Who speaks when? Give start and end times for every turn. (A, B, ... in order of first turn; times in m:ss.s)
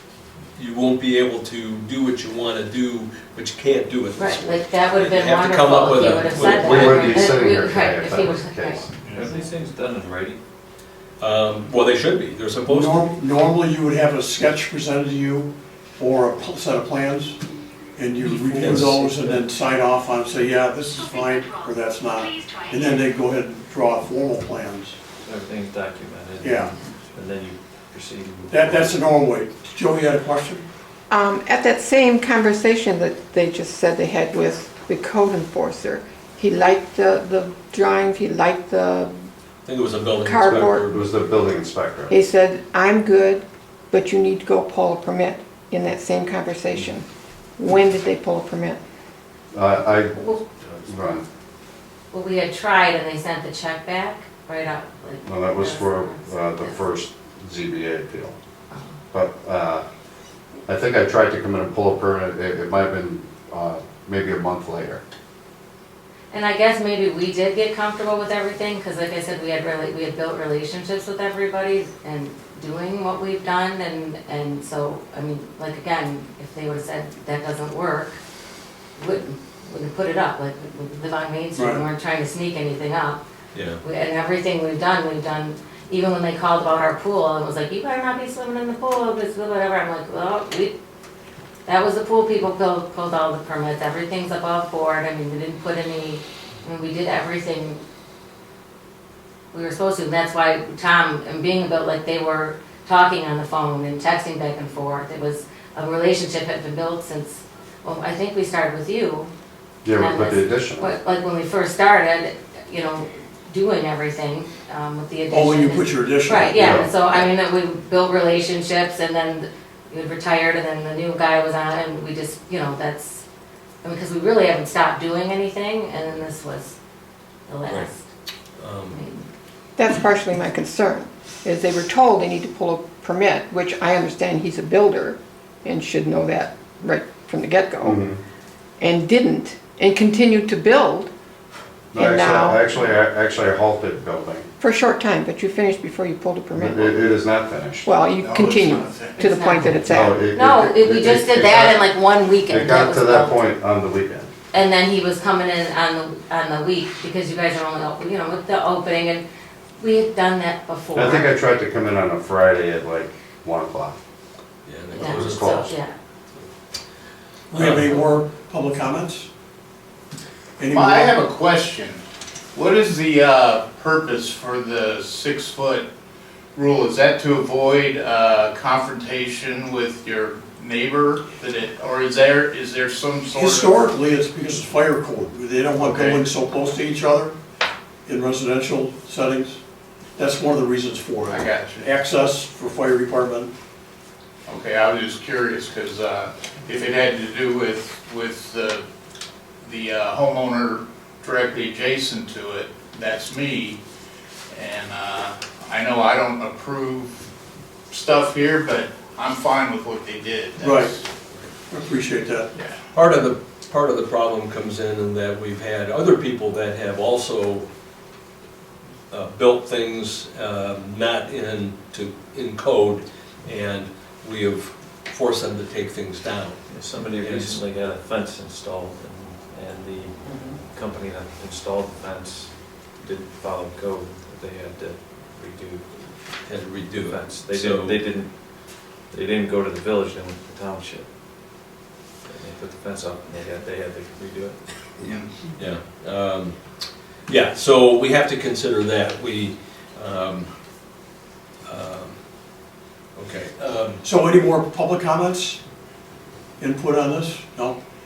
0:00.6-0:07.2 A
0:04.2-0:08.9 B
0:06.0-0:08.9 C
0:09.0-0:09.4 D
0:09.1-0:10.4 E
0:11.2-0:13.1 A
0:12.6-0:17.4 F
0:18.0-0:25.0 F
0:18.4-0:19.4 A
0:25.2-0:29.0 E
0:26.4-0:26.8 F
0:28.5-0:30.7 F
0:31.1-0:39.3 G
0:39.6-0:41.1 A
0:40.2-0:40.9 G
0:40.4-0:42.1 C
0:42.1-0:47.0 G
0:47.6-0:48.8 G
0:49.5-0:51.2 C
0:50.1-0:50.4 B
0:52.1-0:56.8 B
0:55.2-0:58.3 C
0:58.7-0:59.0 B
0:59.1-0:59.8 C
1:00.7-1:05.0 C
1:06.3-1:18.2 B
1:19.0-1:23.2 B
1:21.5-1:21.8 F
1:23.5-1:23.8 A
1:23.8-1:30.7 B
1:31.6-1:37.8 B
1:39.5-1:49.3 B
1:49.8-1:50.9 C
1:49.9-2:03.2 B
1:55.3-1:57.3 F
1:56.5-1:56.9 C
2:03.8-2:06.8 B
2:07.5-2:08.0 B
2:08.6-2:09.0 A
2:08.9-2:09.3 B
2:09.8-2:18.0 G
2:17.8-2:18.2 C
2:18.8-2:21.1 G
2:21.9-2:24.5 C
2:21.9-2:22.6 G
2:24.6-2:27.1 G
2:26.5-2:27.9 C
2:27.8-2:30.2 G
2:28.2-2:29.2 D
2:29.2-2:33.4 B
2:29.8-2:31.9 C
2:32.5-2:34.3 C
2:34.5-2:39.2 B
2:39.8-2:41.3 B
2:40.9-2:44.0 C
2:44.6-2:45.7 A
2:44.9-2:45.9 B
2:44.9-2:45.7 C
2:47.5-2:49.3 F
2:47.5-2:47.8 A
2:50.6-2:51.2 F
2:50.7-2:52.0 D
2:52.5-2:55.9 D
2:56.5-3:03.9 D
3:03.3-3:07.3 F
3:05.8-3:06.3 D
3:08.0-3:09.6 F
3:10.2-3:13.5 F
3:11.3-3:11.9 D
3:14.5-3:18.8 D
3:19.6-3:23.8 D
3:24.5-3:27.2 D
3:27.9-3:31.0 D
3:30.6-3:31.0 F
3:31.7-3:32.5 F
3:32.9-3:37.7 A
3:39.1-3:47.6 A
3:46.7-3:56.0 E
3:56.4-3:58.0 A
3:56.9-4:01.1 E
4:02.2-4:04.6 E
4:05.0-4:05.4 D
4:05.0-4:10.5 A
4:11.6-4:12.3 A
4:13.1-4:14.0 A
4:14.0-4:15.6 F
4:16.6-4:17.8 F